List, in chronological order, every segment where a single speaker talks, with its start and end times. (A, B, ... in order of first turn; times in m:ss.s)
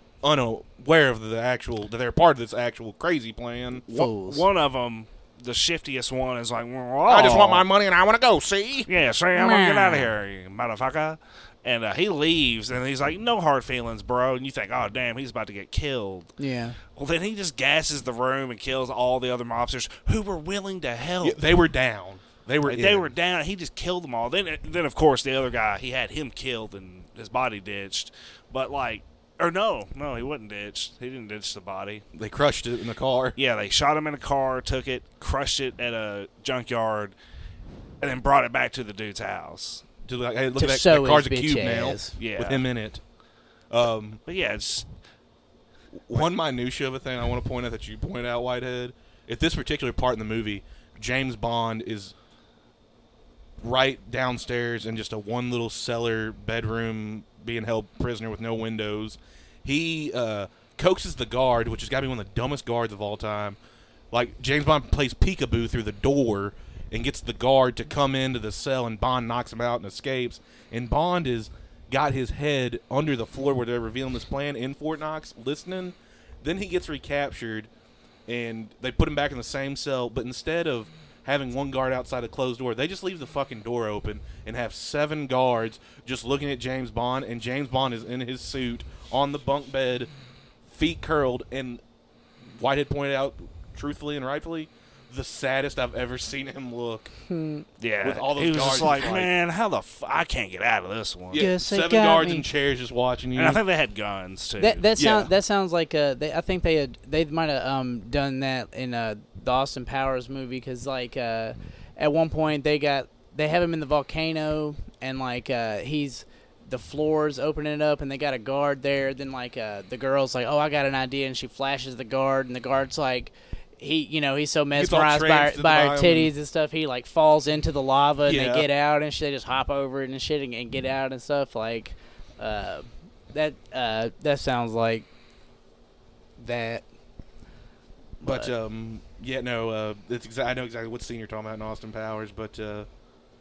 0:00.2-0:03.9 A
0:03.8-0:04.4 B
0:03.9-0:07.6 C
0:07.1-0:08.9 A
0:08.9-0:16.3 C
0:09.3-0:10.1 B
0:16.4-0:16.8 B
0:17.0-0:21.4 C
0:21.2-0:23.1 A
0:22.6-0:32.0 C
0:32.1-0:33.4 A
0:33.4-0:37.1 C
0:38.0-0:39.8 C
0:40.0-0:43.0 A
0:40.6-0:42.2 B
0:42.2-0:42.6 C
0:43.7-0:44.2 A
0:44.2-0:44.9 C
0:46.1-0:52.1 A
0:53.6-1:03.6 A
1:04.1-1:17.7 A
1:18.3-1:30.1 A
1:30.7-1:31.8 A
1:32.5-1:37.1 A
1:37.3-1:37.6 B
1:37.8-1:41.4 C
1:38.0-1:39.3 A
1:41.3-1:43.6 A
1:41.3-1:42.5 B
1:43.3-1:44.8 C
1:44.6-2:15.1 B
1:45.0-1:45.3 A
2:04.7-2:06.3 A
2:08.2-2:08.7 A
2:16.4-2:16.8 B
2:18.2-2:18.5 B
2:18.2-2:22.9 A